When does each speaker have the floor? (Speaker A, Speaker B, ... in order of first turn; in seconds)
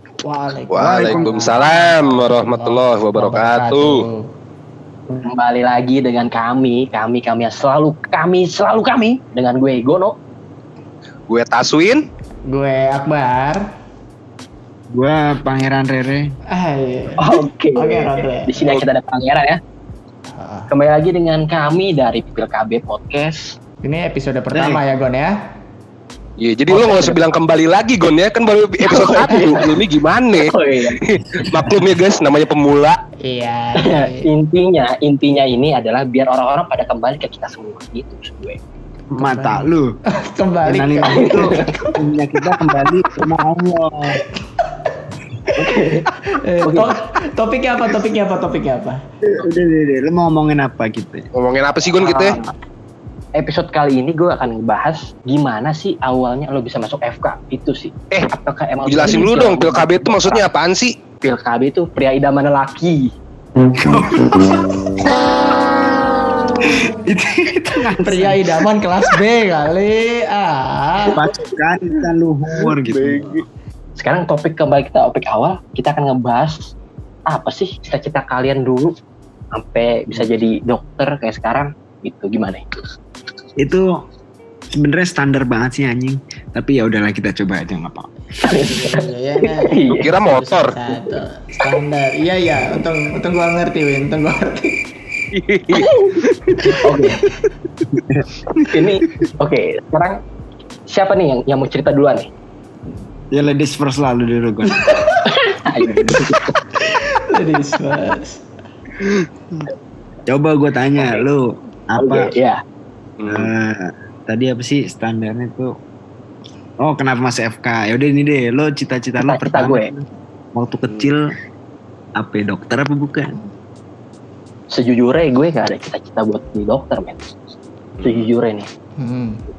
Speaker A: 0.2-4.3, 12.5-13.6, 16.5-18.6, 20.3-20.7, 23.8-25.3, 33.2-34.3, 39.2-41.7, 46.3-49.0, 68.0-71.2, 88.5-94.8, 106.7-108.4, 129.0-129.4
Speaker B: 0.7-4.0, 11.3-12.0, 26.4-33.0, 51.4-52.4, 58.9-60.9, 72.7-73.4, 90.0-90.8, 95.3-96.8, 113.2-113.5, 128.0-128.3
Speaker C: 0.9-1.6, 14.9-16.4, 24.5-24.8, 31.4-31.7, 39.1-39.9, 40.6-44.2, 49.2-51.3, 63.8-64.8, 66.6-68.7, 71.0-73.4, 83.6-83.9, 84.7-88.1, 97.9-98.3, 103.3-106.2, 110.3-112.3, 113.3-115.7, 116.8-121.3, 122.2-123.4
Speaker D: 5.1-10.2, 17.2-19.6, 20.7-23.5, 26.7-27.2, 28.8-29.7, 30.4-31.0, 33.8-38.6, 41.1-41.7, 45.5-46.1, 46.6-47.0, 51.9-52.5, 53.4-60.4, 61.2-63.1, 74.0-76.7, 77.3-78.9, 79.5-82.7, 88.4-90.1, 95.7-96.2, 96.8-97.2, 98.6-100.2, 100.9-102.3, 105.2-106.6, 112.0-112.6, 119.2-119.9, 124.7-127.4, 128.0-128.7